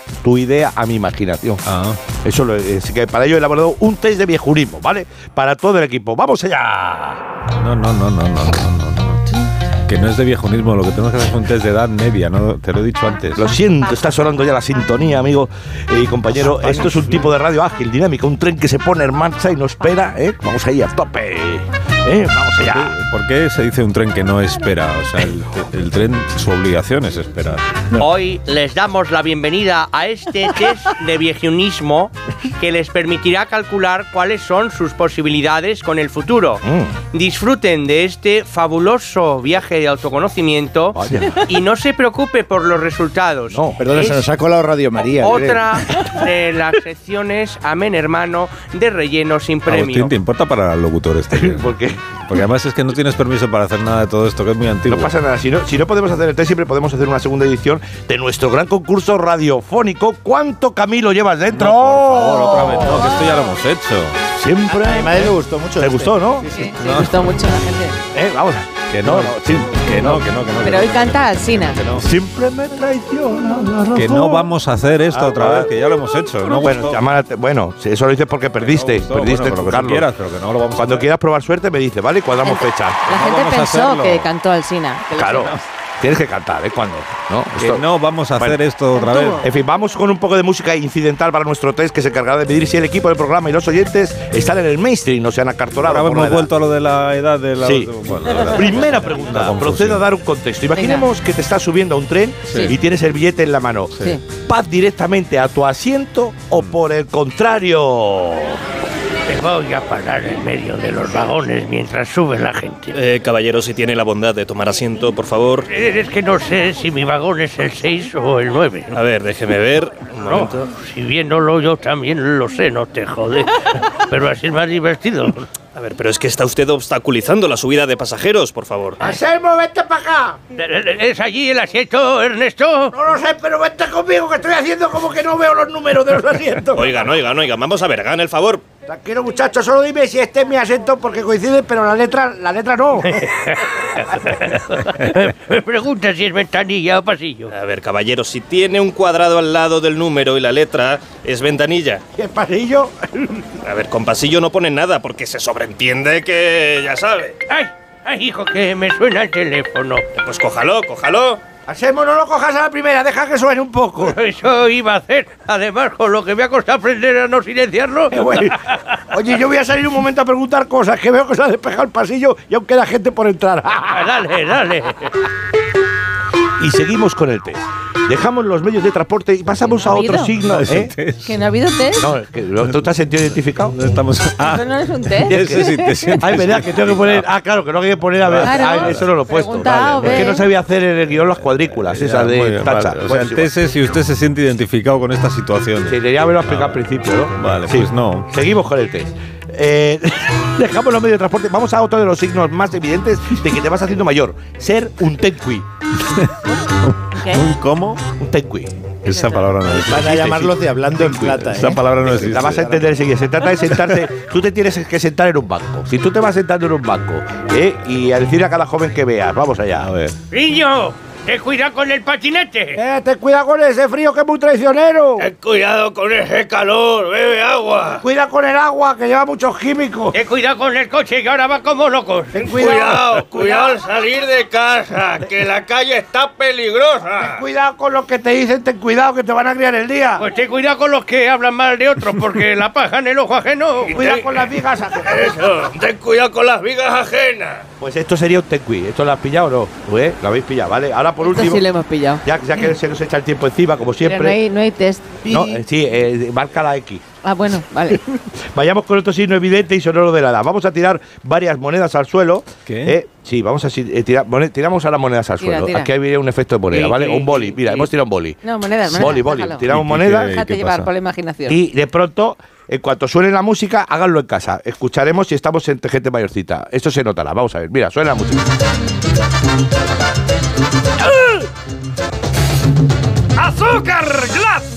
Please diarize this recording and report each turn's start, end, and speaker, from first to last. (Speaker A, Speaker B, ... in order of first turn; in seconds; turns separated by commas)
Speaker A: 0.2-1.6, Speaker B: 1.6-2.0, Speaker A: 2.2-7.2, Speaker B: 7.5-9.2, Speaker B: 9.9-13.5, Speaker A: 13.3-23.0, Speaker B: 16.4-17.1, Speaker B: 22.6-27.8, Speaker C: 28.0-44.2, Speaker A: 36.6-37.0, Speaker A: 40.9-41.5, Speaker A: 43.5-43.8, Speaker D: 43.8-46.0, Speaker C: 45.1-50.1, Speaker A: 45.2-45.5, Speaker B: 49.6-55.1, Speaker A: 51.3-52.0, Speaker A: 54.9-63.2, Speaker B: 61.5-64.2, Speaker A: 64.3-66.5, Speaker D: 64.7-66.5, Speaker E: 66.4-68.0, Speaker B: 66.7-67.2, Speaker A: 68.1-70.2, Speaker B: 68.9-72.1, Speaker E: 70.6-71.8, Speaker A: 72.0-74.5, Speaker B: 73.9-77.0, Speaker A: 75.1-75.7, Speaker A: 76.5-80.1, Speaker B: 78.6-81.1, Speaker A: 80.7-83.1, Speaker E: 82.4-85.5, Speaker B: 83.1-84.3, Speaker A: 85.2-87.8, Speaker B: 87.5-89.5, Speaker E: 88.9-89.4, Speaker A: 89.4-96.5, Speaker B: 95.8-100.0, Speaker A: 97.6-108.6, Speaker E: 100.8-101.1, Speaker E: 102.5-102.7, Speaker C: 109.3-113.0, Speaker F: 112.9-115.7, Speaker C: 115.7-119.0, Speaker F: 118.9-120.7, Speaker C: 120.1-125.5, Speaker F: 125.7-129.0, Speaker A: 129.0-130.4, Speaker C: 130.5-132.9, Speaker A: 132.9-137.0, Speaker F: 136.7-138.6, Speaker A: 138.9-143.3, Speaker C: 143.0-147.5, Speaker F: 147.5-152.0, Speaker A: 152.1-153.4, Speaker F: 153.6-157.4, Speaker C: 157.5-160.1, Speaker F: 160.1-161.4, Speaker A: 161.7-164.2, Speaker C: 164.0-169.0, Speaker A: 168.1-174.1, Speaker C: 173.9-175.1, Speaker A: 176.6-180.9, Speaker E: 179.7-180.3, Speaker B: 180.4-181.4, Speaker E: 181.2-182.1, Speaker A: 182.0-183.8, Speaker B: 183.7-187.2, Speaker E: 184.4-186.1, Speaker A: 185.2-185.7, Speaker A: 186.2-193.5, Speaker B: 188.2-189.1, Speaker E: 188.4-190.4, Speaker B: 190.0-190.3, Speaker B: 191.8-196.8, Speaker A: 195.9-205.7, Speaker B: 197.3-198.3, Speaker B: 206.0-208.0, Speaker E: 207.2-207.4, Speaker A: 208.2-208.7, Speaker B: 209.0-210.2, Speaker E: 209.1-209.5, Speaker D: 209.6-212.6, Speaker A: 209.9-211.4, Speaker B: 211.2-212.8, Speaker A: 212.0-219.9, Speaker B: 213.6-214.0, Speaker B: 219.8-220.2, Speaker C: 220.3-222.8, Speaker A: 222.7-225.3, Speaker C: 225.2-228.0, Speaker A: 228.0-230.2, Speaker C: 230.1-237.4, Speaker A: 232.3-233.6, Speaker A: 237.2-240.3, Speaker C: 240.2-247.7, Speaker A: 243.8-245.5, Speaker A: 247.8-251.6, Speaker E: 251.2-252.2, Speaker A: 252.2-254.4, Speaker E: 254.0-255.5, Speaker A: 255.2-257.0, Speaker E: 257.2-258.0, Speaker A: 258.1-270.4, Speaker B: 262.7-263.0, Speaker E: 265.4-265.9, Speaker C: 266.7-267.7, Speaker E: 268.4-269.6, Speaker B: 269.6-270.9, Speaker E: 270.2-271.6, Speaker A: 271.5-278.4, Speaker C: 283.6-284.6